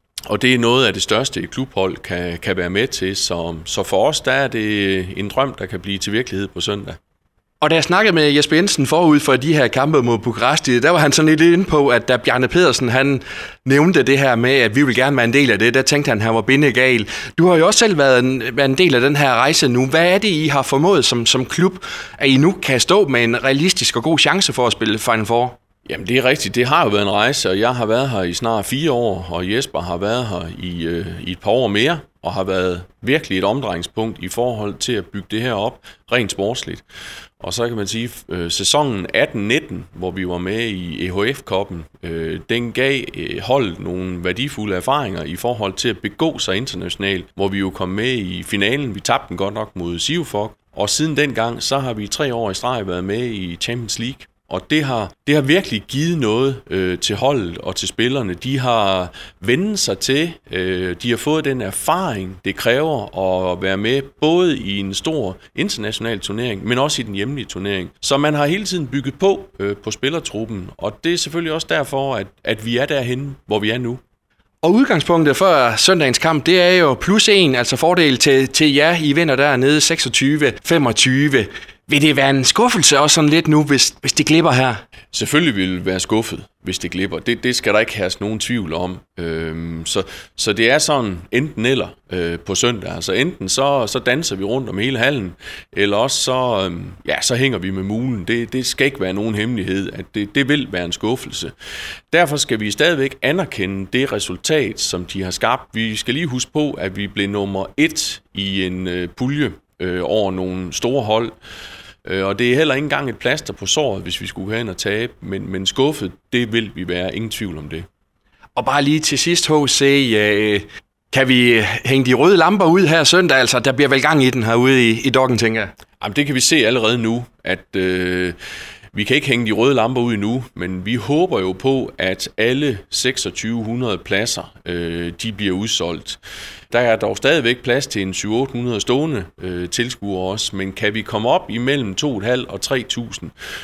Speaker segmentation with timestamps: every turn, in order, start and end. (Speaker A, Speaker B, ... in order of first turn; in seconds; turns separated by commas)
Speaker A: 0.3-7.0, Speaker B: 7.6-25.6, Speaker A: 25.9-36.8, Speaker A: 37.4-74.0, Speaker B: 74.6-84.8, Speaker A: 85.1-101.5, Speaker A: 102.1-111.3, Speaker A: 112.0-117.9, Speaker B: 118.6-125.7, Speaker A: 126.0-128.4, Speaker A: 128.9-136.2, Speaker A: 136.7-143.3